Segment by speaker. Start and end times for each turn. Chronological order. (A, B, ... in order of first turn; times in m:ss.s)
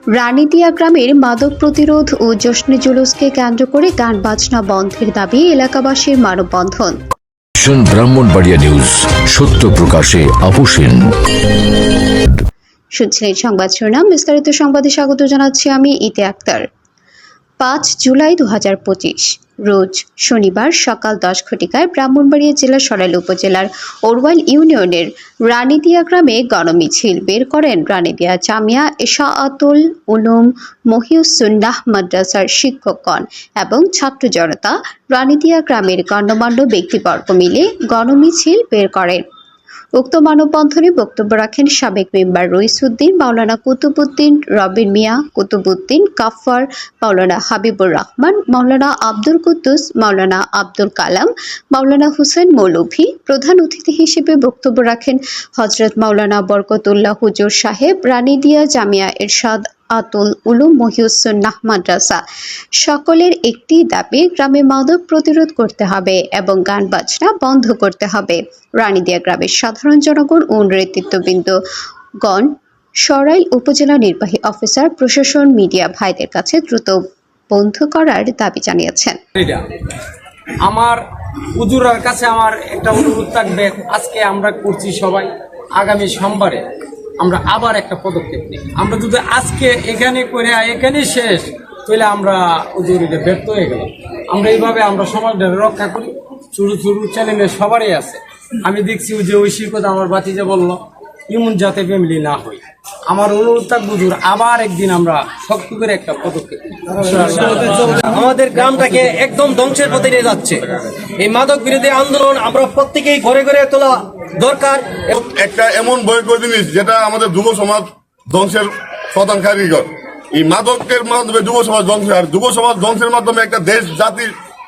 0:00.2-0:07.0 A
0:07.6-0:11.0 B
0:13.0-0:16.7 A
0:17.6-0:39.2 A
0:40.0-1:02.2 A
1:02.8-1:11.6 A
1:12.2-1:12.5 A
1:13.1-1:17.0 A
1:17.5-1:19.2 A
1:19.4-1:19.6 C
1:20.6-1:21.0 C
1:21.6-1:26.6 C
1:27.2-1:46.6 C
1:47.2-1:55.1 D
1:55.1-2:04.3 E